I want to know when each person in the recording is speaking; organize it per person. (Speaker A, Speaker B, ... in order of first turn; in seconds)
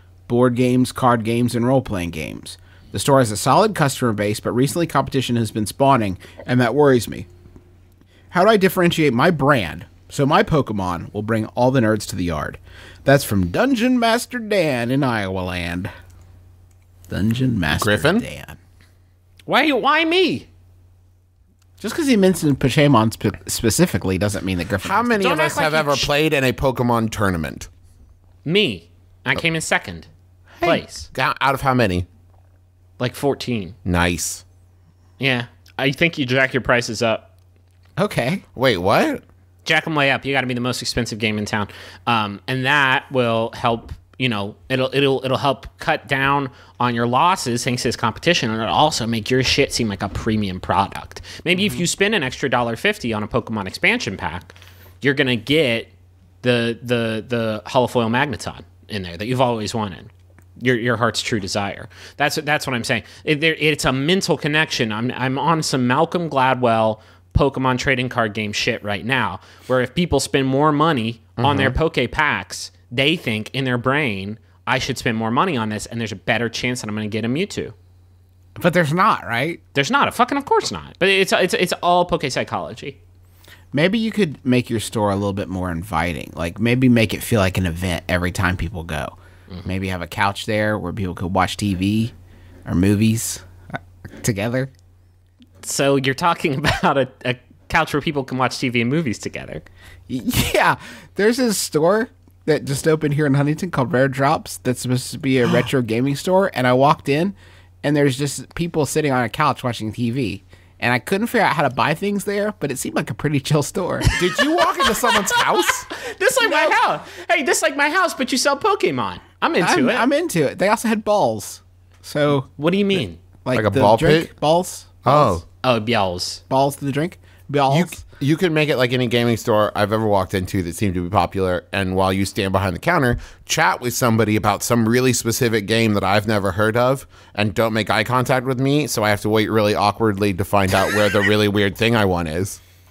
Speaker A: 0.3-7.3, 8.3-15.9, 17.1-18.6, 21.8-25.2, 38.0-38.4, 78.6-79.6, 83.7-92.1, 92.7-93.5, 94.2-94.7, 100.1-114.1, 116.4-116.8, 119.6-122.5, 123.4-125.4, 126.5-128.0
Speaker B: 17.8-18.2, 24.8-27.7, 31.1-32.0, 33.8-34.4, 38.5-39.2, 71.4-71.8, 114.2-115.9, 123.5-124.3, 125.0-125.4, 127.7-142.6
Speaker C: 19.5-20.5, 25.2-26.1, 28.4-30.1, 30.6-31.1, 33.0-33.8, 35.2-37.3, 39.6-55.9, 56.4-77.7, 79.7-83.0, 95.6-99.6, 114.2-120.1, 122.5-123.2, 125.6-126.4